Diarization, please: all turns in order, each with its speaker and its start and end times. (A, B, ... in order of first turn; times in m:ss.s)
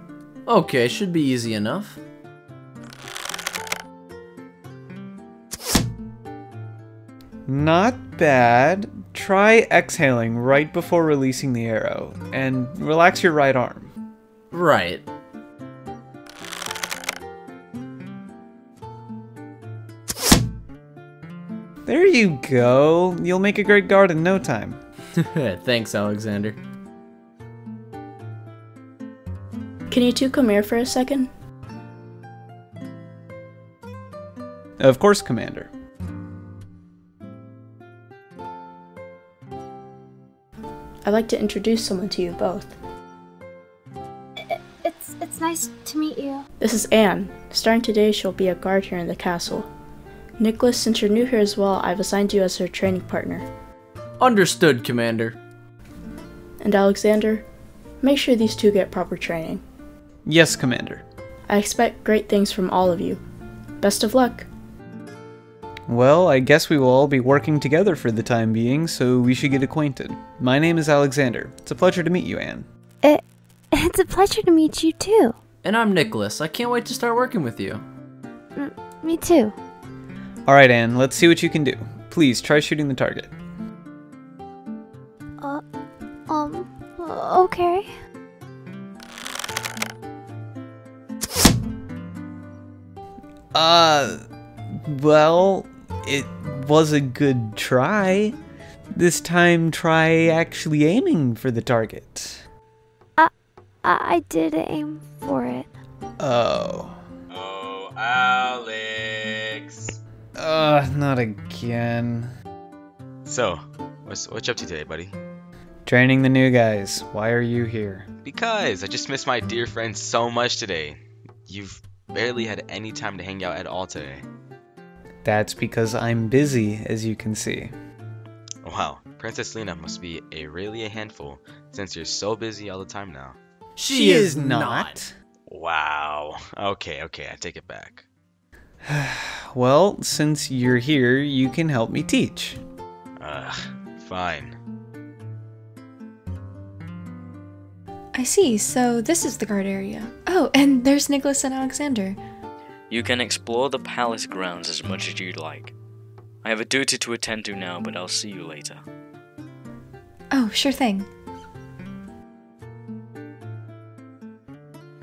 0:00.5-0:02.0 A
0:07.5-0:13.9 B
0:14.5-0:15.0 A
0:21.9-0:24.8 B
0:25.2-0:26.6 A
0:29.9-0:31.3 C
0:34.8-0:35.7 B
0:41.0-0:42.7 C
0:44.4-0:46.4 D
0:46.6-0:49.7 C
0:50.4-0:53.4 C
0:54.2-0:55.4 A
0:56.6-0:57.4 C
0:58.0-0:59.6 C
1:00.2-1:01.0 B
1:01.5-1:03.2 C
1:03.8-1:04.5 C
1:05.9-1:12.7 B
1:13.0-1:15.4 D
1:15.6-1:17.8 A
1:18.6-1:19.5 D
1:20.5-1:23.3 B
1:26.3-1:27.9 D
1:33.5-1:38.4 B
1:38.9-1:42.4 B
1:43.8-1:45.7 D
1:46.2-1:47.0 B
1:47.3-1:50.0 E
1:50.4-1:52.3 B
1:53.2-1:55.2 E
1:55.8-1:58.1 B
1:58.2-2:04.2 E
2:05.2-2:07.7 B
2:08.6-2:13.4 E
2:13.8-2:15.0 A
2:13.9-2:15.1 B
2:15.5-2:18.0 E
2:18.8-2:22.6 B
2:23.2-2:24.6 E
2:28.2-2:32.2 F
2:32.9-2:35.7 G
2:36.4-2:38.8 G
2:40.3-2:41.1 F